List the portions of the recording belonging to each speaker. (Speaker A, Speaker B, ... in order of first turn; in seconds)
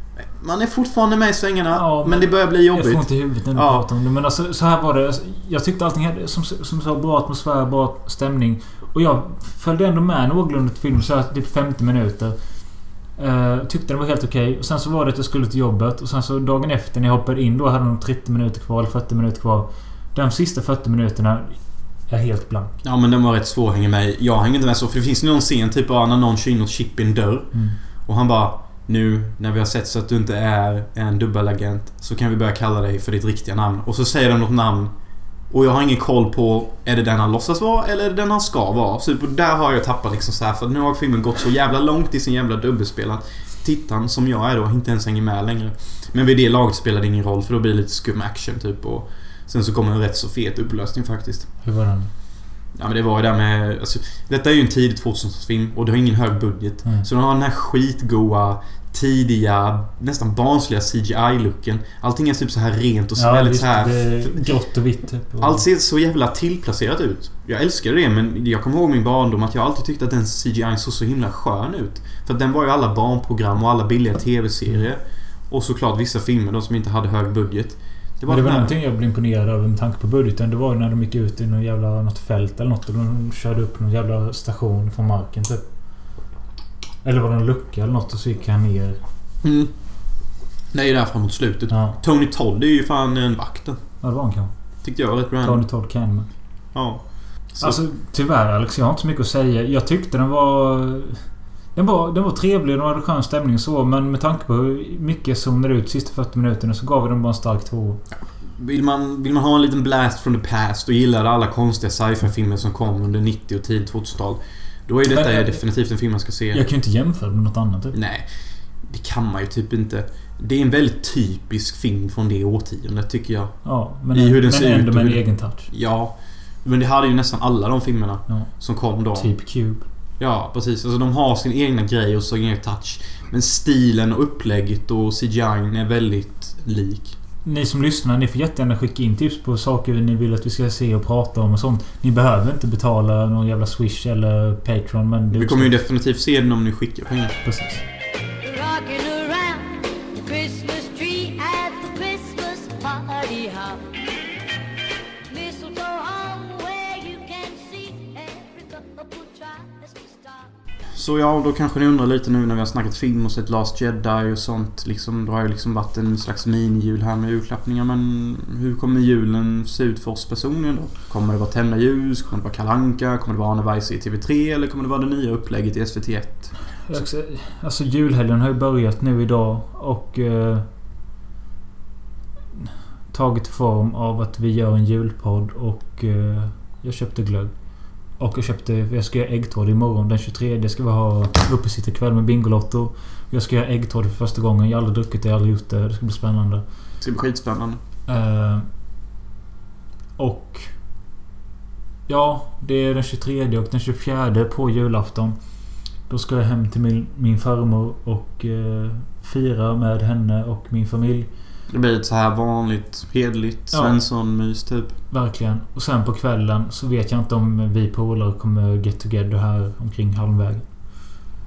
Speaker A: 0.2-3.9, 22.8-27.5, 28.1-34.9, 35.5-51.5, 52.8-64.5, 65.4-78.8, 89.4-89.7, 90.7-93.8, 94.8-95.7, 96.7-97.0, 97.5-97.8, 108.1-116.6, 117.9-118.3, 118.8-123.6, 124.1-129.3, 130.2-137.2, 145.3-147.4, 160.9-176.5, 197.0-197.8, 211.7-215.0
Speaker B: 1.7-12.4, 13.2-22.7, 51.6-52.1, 63.2-65.6, 78.3-85.7, 87.0-89.0, 91.7-92.0, 94.0-94.5, 95.4-96.3, 97.6-101.2, 101.8-108.0, 115.1-115.6, 116.5-118.0, 123.7-125.7, 129.1-129.8, 137.4-145.7, 147.4-147.8, 176.9-180.7, 182.6-187.5, 188.2-196.6, 198.1-198.7, 200.2-200.7, 202.1-205.4, 206.1-211.3, 213.7-214.0, 215.1-221.1
Speaker C: 148.4-153.9, 155.3-160.5